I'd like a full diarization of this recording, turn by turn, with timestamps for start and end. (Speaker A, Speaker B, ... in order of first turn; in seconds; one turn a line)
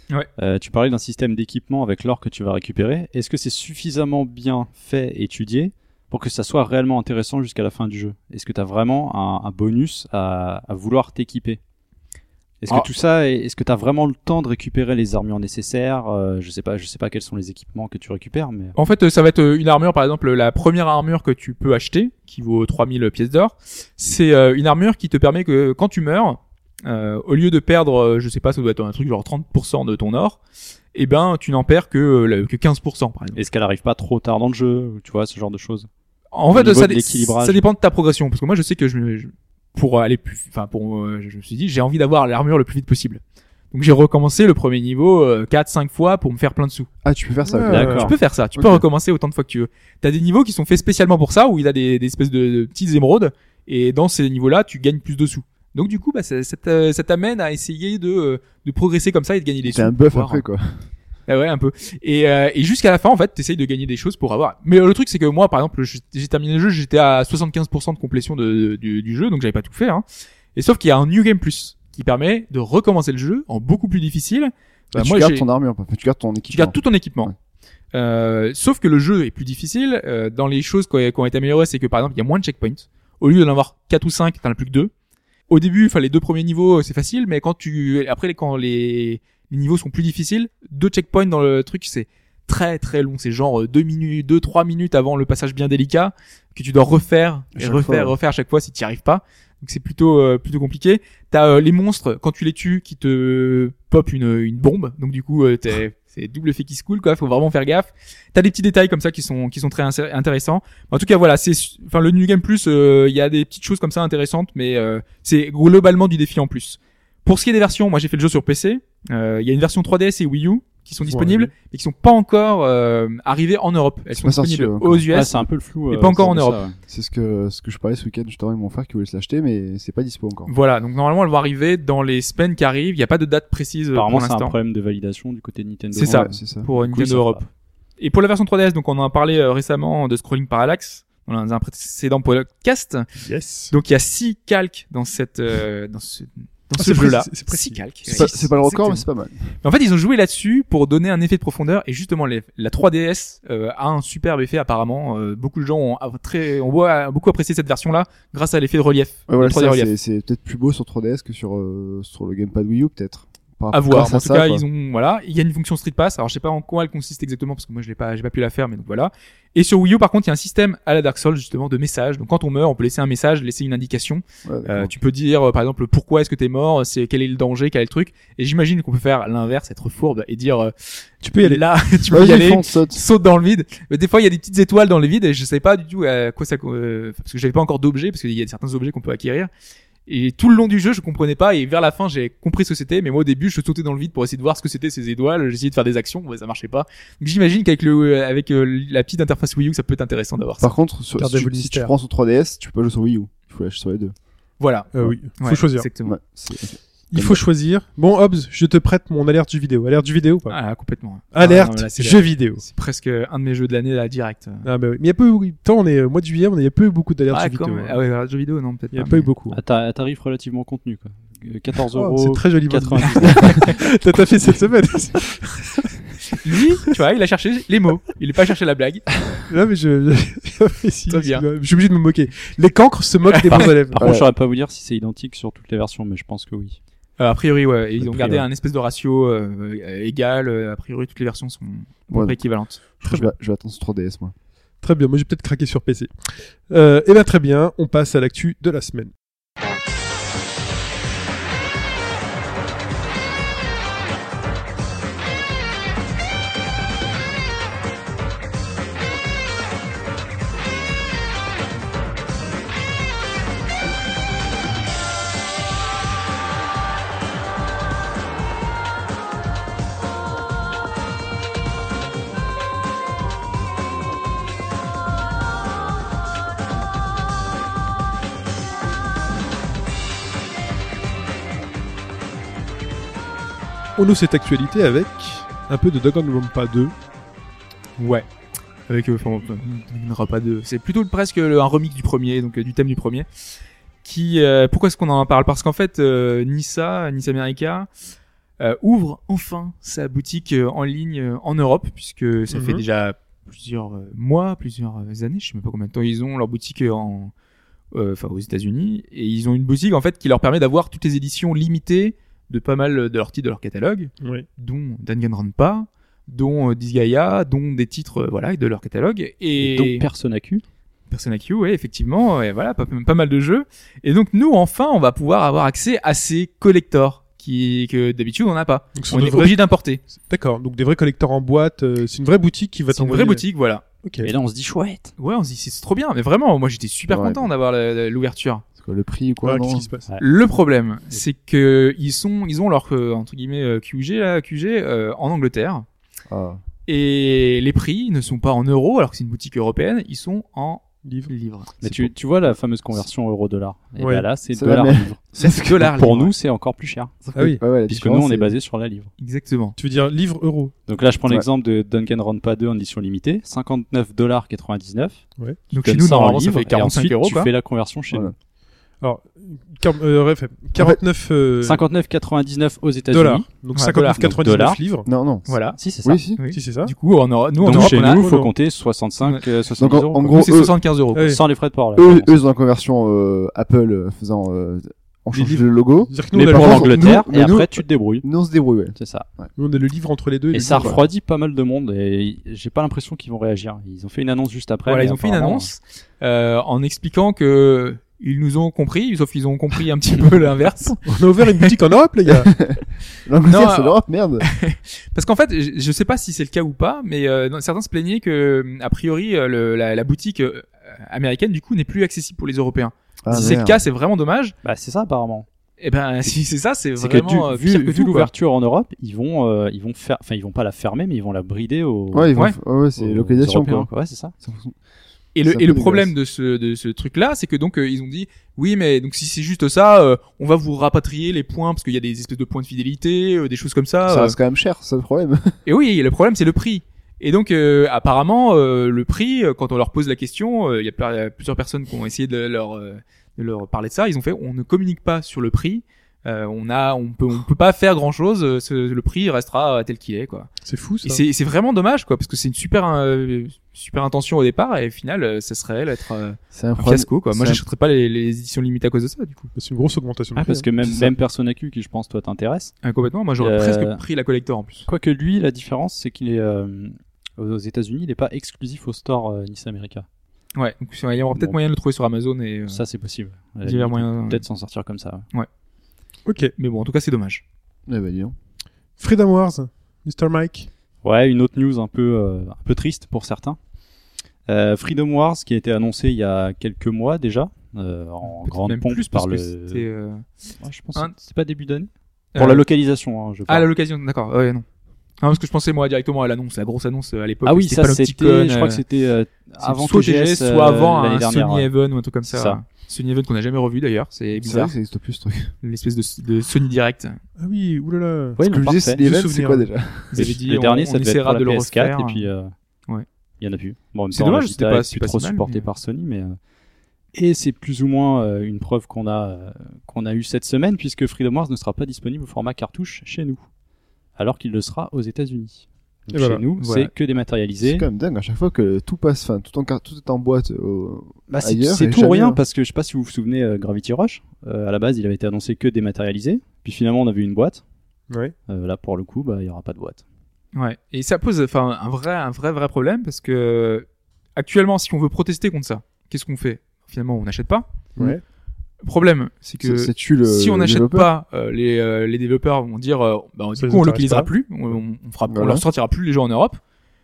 Speaker A: 0.4-11.6
Speaker A: 12.6-18.8
Speaker B: 18.8-30.4
Speaker B: 30.9-33.4
Speaker A: 33.4-35.9
Speaker B: 36.3-43.2
Speaker A: 36.5-37.6
Speaker B: 43.7-46.9
Speaker C: 47.0-48.8
Speaker D: 47.5-48.1
Speaker A: 47.7-48.1
Speaker B: 48.0-60.5
Speaker C: 59.6-60.9
Speaker B: 61.3-70.0
Speaker B: 70.5-75.5
Speaker C: 74.9-77.3
Speaker B: 76.5-77.3
Speaker B: 77.9-84.9
Speaker B: 85.5-125.3
Speaker C: 97.5-98.2
Speaker D: 121.0-121.5
Speaker C: 124.1-125.1
Speaker A: 125.1-126.8
Speaker B: 125.9-126.6
Speaker C: 126.9-130.5
Speaker B: 130.5-134.6
Speaker A: 133.9-137.4
Speaker B: 135.9-137.4
Speaker C: 136.0-136.7
Speaker B: 138.0-143.1
Speaker D: 143.2-143.7
Speaker B: 143.7-149.1
Speaker D: 146.8-148.2
Speaker C: 148.1-149.5
Speaker B: 149.6-159.9
Speaker C: 159.3-164.6
Speaker B: 163.7-189.5
Speaker C: 174.4-174.9
Speaker D: 181.2-181.6
Speaker C: 182.1-183.0
Speaker B: 190.1-200.7
Speaker C: 200.6-204.1
Speaker D: 201.2-201.9
Speaker B: 204.6-206.2
Speaker D: 204.9-205.9
Speaker C: 206.0-207.4
Speaker D: 207.1-210.6
Speaker B: 210.5-214.7
Speaker D: 211.3-212.6
Speaker D: 214.7-218.0
Speaker B: 217.3-219.3
Speaker D: 218.9-219.6
Speaker A: 219.5-223.7
Speaker D: 221.9-225.9
Speaker B: 226.4-229.1
Speaker D: 229.5-234.0
Speaker B: 231.1-231.4
Speaker B: 233.3-233.7
Speaker A: 233.5-236.8
Speaker C: 234.0-234.3
Speaker B: 237.2-242.8
Speaker A: 238.0-238.4
Speaker C: 242.1-244.3
Speaker D: 244.8-249.1
Speaker D: 284.0-286.9
Speaker B: 288.0-288.3
Speaker B: 288.9-293.3
Speaker B: 294.0-297.9
Speaker B: 298.6-307.3
Speaker D: 302.5-302.8
Speaker B: 307.9-320.1
Speaker D: 314.2-314.5
Speaker A: 319.6-320.6
Speaker B: 321.1-330.0
Speaker D: 329.0-329.6
Speaker D: 330.1-333.4
Speaker B: 332.9-333.9
Speaker D: 334.0-334.3
Speaker A: 334.2-335.1
Speaker B: 335.2-338.6
Speaker C: 337.1-337.5
Speaker C: 338.8-339.9
Speaker D: 339.4-340.1
Speaker B: 340.2-345.9
Speaker C: 346.3-346.6
Speaker B: 346.9-351.7
Speaker D: 351.1-351.3
Speaker A: 351.8-357.2
Speaker D: 354.0-354.3
Speaker C: 354.5-355.9
Speaker B: 355.4-356.3
Speaker C: 357.2-358.5
Speaker D: 357.4-357.6
Speaker A: 357.8-359.1
Speaker B: 359.2-359.8
Speaker D: 359.8-360.7
Speaker A: 360.9-365.2
Speaker B: 365.7-367.5
Speaker A: 365.8-368.3
Speaker D: 369.0-371.8
Speaker A: 371.6-373.5
Speaker D: 373.1-375.1
Speaker B: 373.8-374.2
Speaker A: 374.2-374.8
Speaker C: 375.1-375.5
Speaker B: 375.5-375.8
Speaker A: 375.8-376.2
Speaker C: 376.0-376.4
Speaker B: 376.4-378.3
Speaker D: 376.5-376.9
Speaker A: 377.6-380.5
Speaker D: 377.6-378.5
Speaker C: 379.8-380.7
Speaker B: 380.3-381.4
Speaker D: 381.1-381.4
Speaker A: 381.2-382.3
Speaker C: 382.0-389.5
Speaker D: 385.3-387.1
Speaker A: 386.3-388.3
Speaker A: 389.0-389.3
Speaker D: 389.6-391.0
Speaker A: 390.5-395.7
Speaker C: 390.7-391.0
Speaker B: 394.9-401.1
Speaker D: 401.1-402.5
Speaker C: 402.4-404.5
Speaker B: 403.5-414.5
Speaker C: 413.2-413.8
Speaker A: 414.6-415.5
Speaker B: 415.8-418.3
Speaker A: 417.0-422.4
Speaker C: 422.1-423.9
Speaker A: 423.0-424.3
Speaker C: 424.4-424.8
Speaker B: 425.4-434.4
Speaker C: 425.5-426.1
Speaker C: 434.1-435.5
Speaker B: 435.6-450.5
Speaker D: 450.6-451.2
Speaker B: 451.0-459.5
Speaker C: 456.5-457.6
Speaker D: 459.6-460.7
Speaker A: 460.4-462.7
Speaker C: 460.8-461.1
Speaker B: 462.8-464.9
Speaker A: 463.4-464.0
Speaker A: 464.9-470.1
Speaker B: 470.6-472.8
Speaker A: 472.7-475.3
Speaker B: 473.6-474.4
Speaker D: 476.3-476.5
Speaker B: 476.6-477.4
Speaker C: 477.9-478.4
Speaker D: 479.0-480.7
Speaker A: 481.0-483.6
Speaker A: 484.5-489.9
Speaker B: 488.2-490.3
Speaker A: 490.6-493.7
Speaker B: 492.4-492.6
Speaker B: 493.5-494.6
Speaker B: 495.2-498.8
Speaker A: 497.4-501.7
Speaker B: 499.6-504.7
Speaker A: 502.3-502.6
Speaker C: 504.4-505.5
Speaker B: 505.6-507.2
Speaker D: 507.4-508.4
Speaker A: 508.4-509.0
Speaker C: 508.4-510.3
Speaker D: 509.0-509.7
Speaker B: 510.1-512.3
Speaker A: 510.1-512.5
Speaker A: 513.4-516.4
Speaker B: 514.1-515.7
Speaker A: 517.1-523.4
Speaker A: 524.2-527.9
Speaker D: 526.1-526.4
Speaker B: 526.6-526.9
Speaker C: 527.6-532.4
Speaker A: 531.3-537.6
Speaker A: 538.5-540.0
Speaker B: 540.5-547.7
Speaker B: 548.8-556.6
Speaker C: 549.6-551.1
Speaker D: 553.6-554.3
Speaker C: 555.3-555.6